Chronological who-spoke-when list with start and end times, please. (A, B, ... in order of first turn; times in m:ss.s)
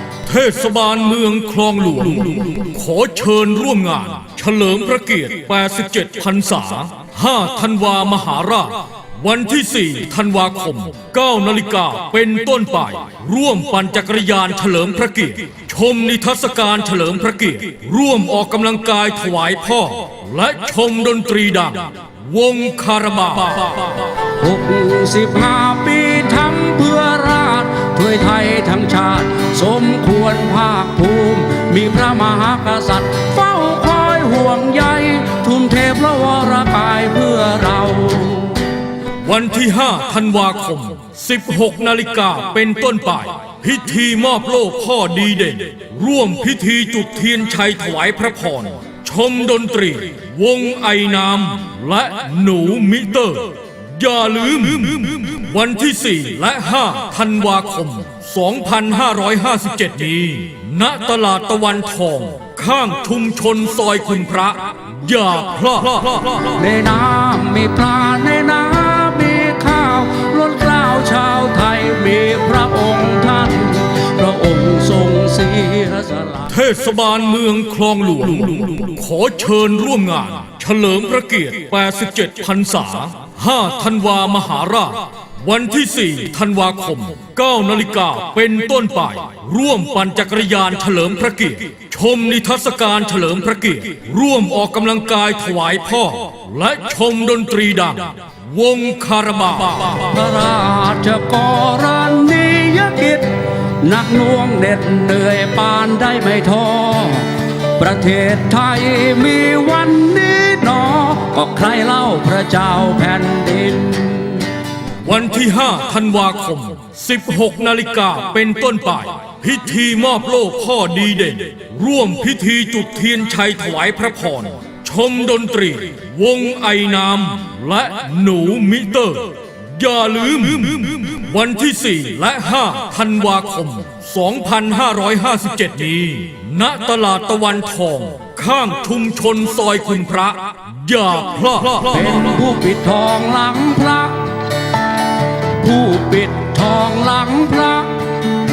0:00.3-0:24.0 A
0:24.4-0:38.6 B
0:39.2-1:06.6 A
1:06.6-1:16.5 B
1:16.5-1:40.1 A
1:40.0-1:54.5 B
1:55.0-2:22.4 A
2:21.8-2:24.5 B
2:25.5-2:28.2 B